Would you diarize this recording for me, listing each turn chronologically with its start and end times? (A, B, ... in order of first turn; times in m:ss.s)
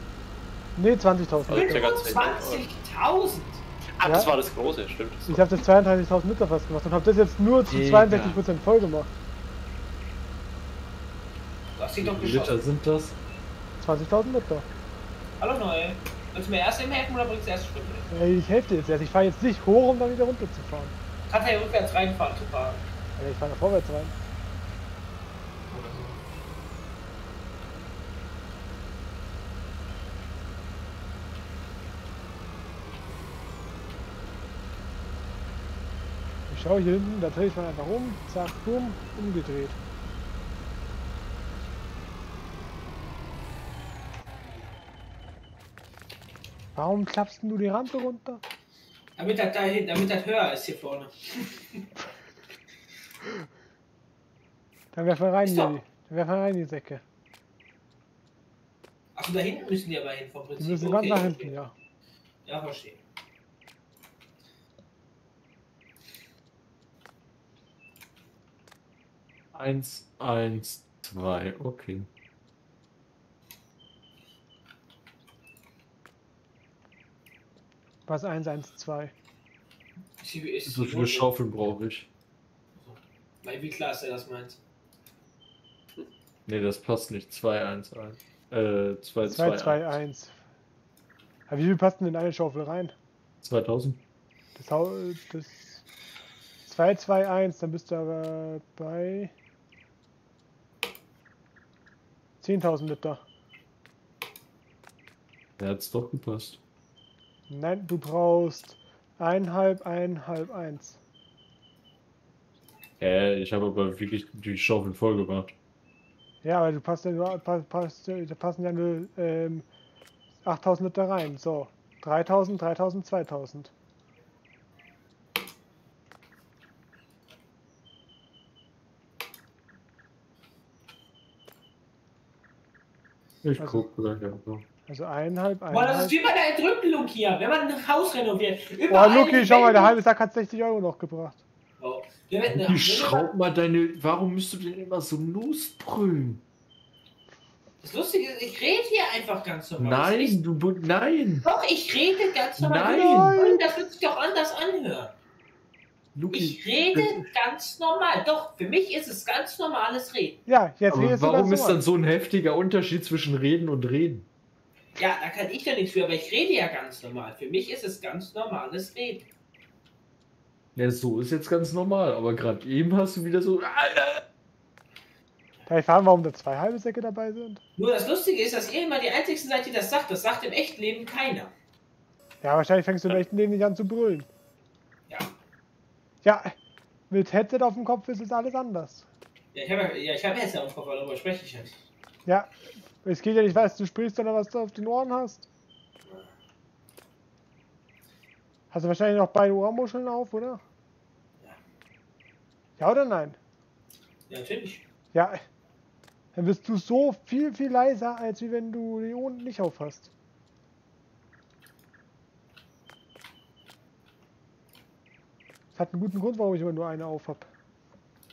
0:00.8-0:01.9 A
0:01.5-0:02.6 B
0:01.5-0:03.6 C
0:04.0-0:05.3 B
0:04.0-0:04.3 A
0:05.2-0:09.1 A
0:07.7-0:08.4 D
0:11.8-0:12.6 C
0:12.0-0:13.2 D
0:13.8-0:14.7 A
0:15.4-0:18.1 C
0:18.1-0:20.9 A
0:21.3-0:22.8 C
0:23.2-0:24.1 A
0:25.7-0:26.2 C
0:36.5-0:39.8 A
0:46.7-0:48.4 A
0:49.2-0:51.8 C
0:54.9-0:57.0 A
0:55.4-0:55.7 C
0:59.1-1:01.5 C
1:00.6-1:01.7 A
1:02.4-1:03.0 C
1:09.5-1:12.1 D
1:18.1-1:19.1 A
1:20.2-1:21.3 C
1:20.7-1:22.1 D
1:22.8-1:24.6 C
1:26.4-1:30.0 D
1:29.2-1:30.4 A
1:31.5-1:32.9 A
1:33.4-1:34.0 D
1:34.6-1:35.8 A
1:36.6-1:39.3 A
1:42.4-1:43.2 A
1:45.6-1:46.6 D
1:47.5-1:51.0 A
1:53.0-1:55.5 D
1:56.4-1:59.6 A
2:00.4-2:03.7 A
2:13.4-2:14.6 D
2:13.6-2:13.8 A
2:14.9-2:16.2 A
2:15.7-2:20.0 C
2:18.9-2:21.4 A
2:21.8-2:23.3 C
2:22.5-2:26.4 D
2:27.8-2:30.4 C
2:29.8-2:31.4 D
2:31.4-2:35.1 C
2:32.6-2:33.3 D
2:32.9-2:33.8 A
2:36.1-2:37.2 D
2:36.3-2:40.4 C
2:40.4-2:41.8 A
2:40.9-2:44.3 D
2:45.0-2:49.3 C
2:50.7-2:54.2 D
2:55.7-2:57.6 A
2:57.8-3:01.5 C
3:02.4-3:04.3 A
3:06.2-3:06.5 A
3:07.1-3:09.0 A
3:09.5-3:11.8 C
3:12.2-3:12.5 A
3:13.0-3:15.5 A
3:18.7-3:20.6 A
3:22.8-3:23.4 A
3:24.3-3:24.8 C
3:25.1-3:25.4 A
3:26.3-3:30.1 A
3:35.7-3:37.5 A